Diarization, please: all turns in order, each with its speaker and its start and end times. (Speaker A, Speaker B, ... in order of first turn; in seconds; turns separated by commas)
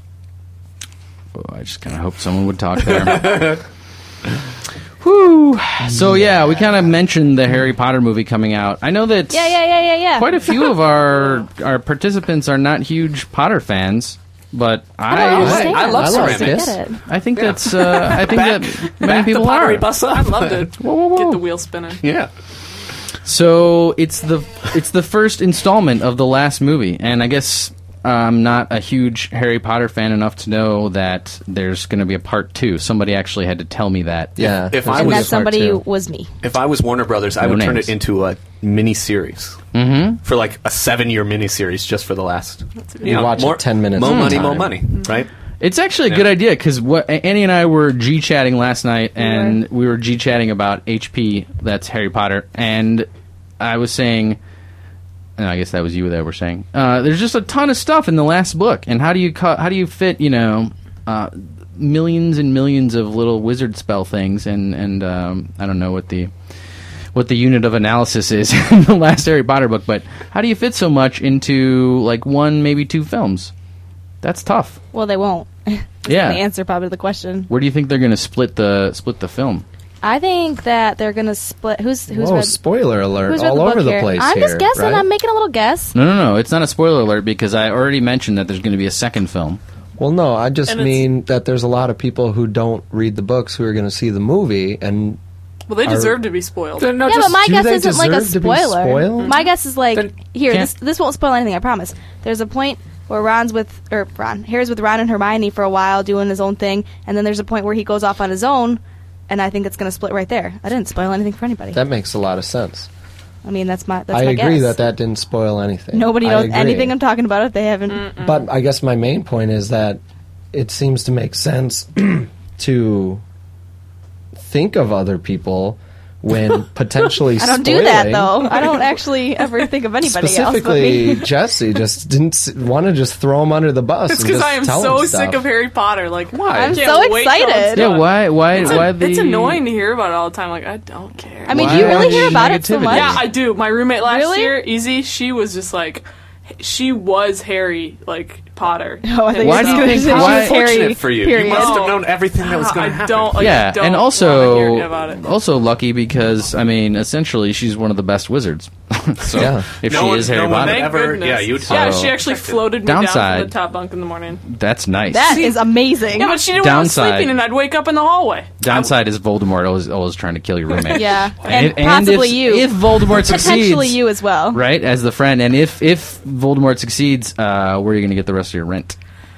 Speaker A: 1.3-3.5, Speaker B: 3.1-3.6, Speaker A: 5.0-9.6, Speaker C: 5.8-6.9, Speaker D: 9.3-10.7, Speaker A: 10.1-16.3, Speaker E: 11.1-11.4, Speaker D: 15.1-17.0, Speaker B: 15.3-16.6, Speaker C: 15.3-16.8, Speaker A: 17.1-19.9, Speaker B: 17.4-20.7, Speaker E: 20.0-22.0, Speaker A: 20.8-21.4, Speaker B: 22.0-22.3, Speaker A: 23.2-34.5, Speaker C: 34.4-35.8, Speaker B: 34.7-35.4, Speaker D: 34.9-36.3, Speaker B: 36.4-39.6, Speaker A: 37.4-37.9, Speaker A: 39.7-40.2, Speaker B: 40.2-45.3, Speaker E: 42.8-43.5, Speaker C: 43.0-44.8, Speaker A: 44.0-44.5, Speaker A: 45.6-53.1, Speaker D: 49.2-49.6, Speaker A: 53.6-54.4, Speaker A: 55.4-66.3, Speaker A: 67.1-73.5, Speaker A: 74.2-74.8, Speaker D: 74.9-77.5, Speaker A: 76.0-76.4, Speaker A: 77.5-79.6, Speaker D: 80.0-82.6, Speaker C: 82.1-85.1, Speaker D: 83.2-85.9, Speaker A: 85.9-89.6, Speaker C: 90.0-95.2, Speaker E: 90.7-91.1, Speaker E: 95.7-97.0, Speaker C: 95.8-96.2, Speaker B: 96.8-97.3, Speaker D: 97.0-111.8, Speaker C: 97.1-99.3, Speaker C: 111.7-112.9, Speaker D: 113.4-114.7, Speaker C: 114.1-116.9, Speaker D: 115.9-118.1, Speaker E: 117.9-118.3, Speaker C: 118.2-120.0, Speaker C: 120.5-123.2, Speaker C: 124.3-128.6, Speaker D: 127.4-131.3, Speaker C: 130.0-135.4, Speaker E: 134.1-142.3, Speaker B: 136.4-136.8, Speaker D: 136.5-137.9, Speaker A: 137.7-139.6, Speaker D: 141.4-143.3, Speaker A: 141.5-143.2, Speaker C: 141.6-142.3, Speaker E: 142.9-146.0, Speaker D: 143.9-144.6, Speaker E: 146.6-150.4, Speaker D: 149.0-151.9, Speaker A: 149.4-150.6, Speaker B: 149.8-153.6, Speaker E: 151.4-155.2, Speaker A: 153.4-160.9, Speaker C: 159.3-159.7, Speaker B: 159.4-162.7, Speaker E: 160.0-164.4, Speaker A: 161.6-162.2, Speaker A: 162.8-163.5, Speaker A: 164.4-165.4, Speaker D: 165.1-166.5, Speaker E: 165.2-168.9, Speaker A: 166.5-167.4, Speaker A: 168.6-178.9, Speaker E: 170.8-171.8, Speaker D: 170.9-174.6